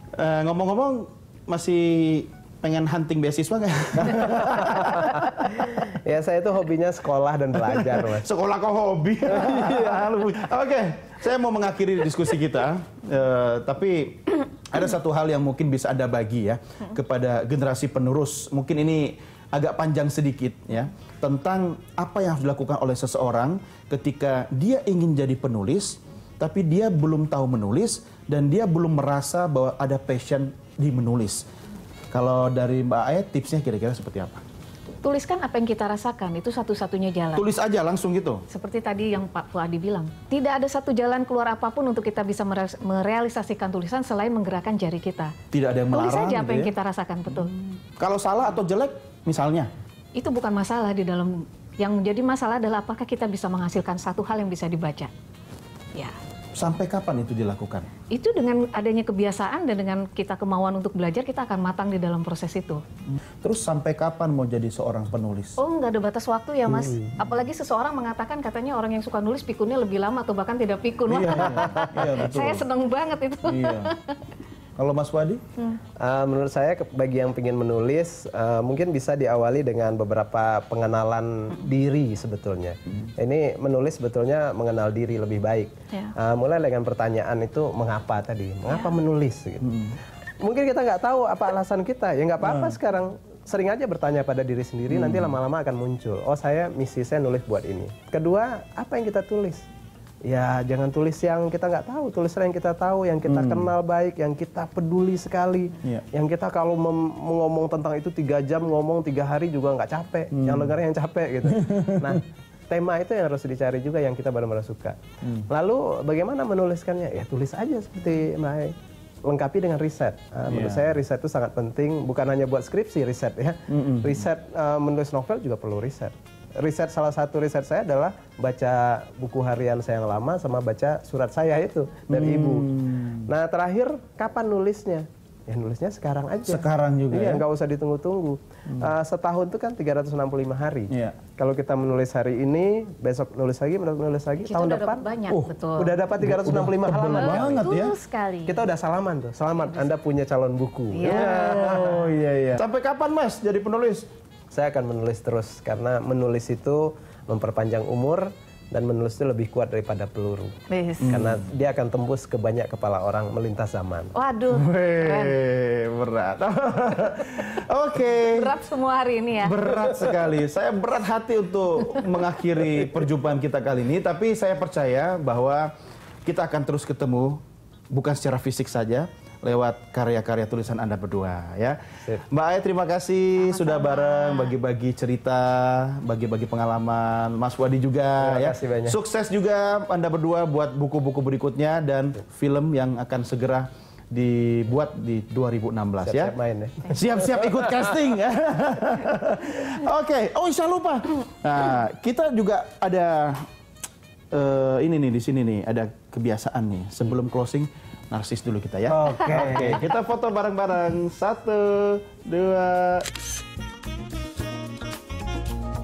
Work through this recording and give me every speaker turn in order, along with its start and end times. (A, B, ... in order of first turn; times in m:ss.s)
0:00.2-0:05.8 A
0:04.5-0:08.3 B
0:07.8-0:31.4 A
0:09.2-0:10.1 B
0:32.1-0:34.4 A
0:35.0-0:37.4 C
0:37.4-0:38.4 A
0:38.5-0:45.4 C
0:45.5-0:46.7 A
0:45.9-0:47.5 C
0:48.0-0:49.7 A
0:50.2-0:55.1 C
0:56.6-0:57.9 A
0:58.1-1:02.8 C
1:03.4-1:05.6 A
1:05.6-1:14.2 C
1:06.7-1:07.1 B
1:11.1-1:12.7 A
1:11.6-1:12.0 B
1:13.4-1:13.9 A
1:14.8-1:15.4 A
1:16.0-1:29.8 B
1:30.4-1:39.6 B
1:34.9-1:35.3 A
1:40.3-2:12.7 B
1:43.3-1:43.7 A
1:50.3-1:50.7 A
1:51.6-1:52.2 A
2:00.5-2:00.9 A
2:03.7-2:04.2 A
2:12.1-2:13.3 A
2:13.2-2:25.1 B
2:16.5-2:17.4 A
2:20.9-2:21.2 A
2:24.4-2:26.0 C
2:25.8-2:27.7 B
2:26.2-2:28.0 A
2:26.9-2:28.6 C
2:28.5-2:32.6 B
2:30.9-2:31.9 C
2:31.0-2:34.1 A
2:34.5-2:40.6 B
2:40.7-2:41.1 C
2:41.0-2:41.4 A
2:41.1-2:44.2 B
2:44.2-2:45.4 C
2:44.5-2:48.5 A
2:48.2-2:49.8 C
2:49.4-2:55.7 A
2:56.3-2:57.4 A
2:57.9-3:16.3 A
3:03.4-3:04.6 C
3:08.2-3:09.0 B
3:16.0-3:17.4 B
3:16.8-3:23.5 A
3:24.3-3:33.1 A
3:28.9-3:29.8 B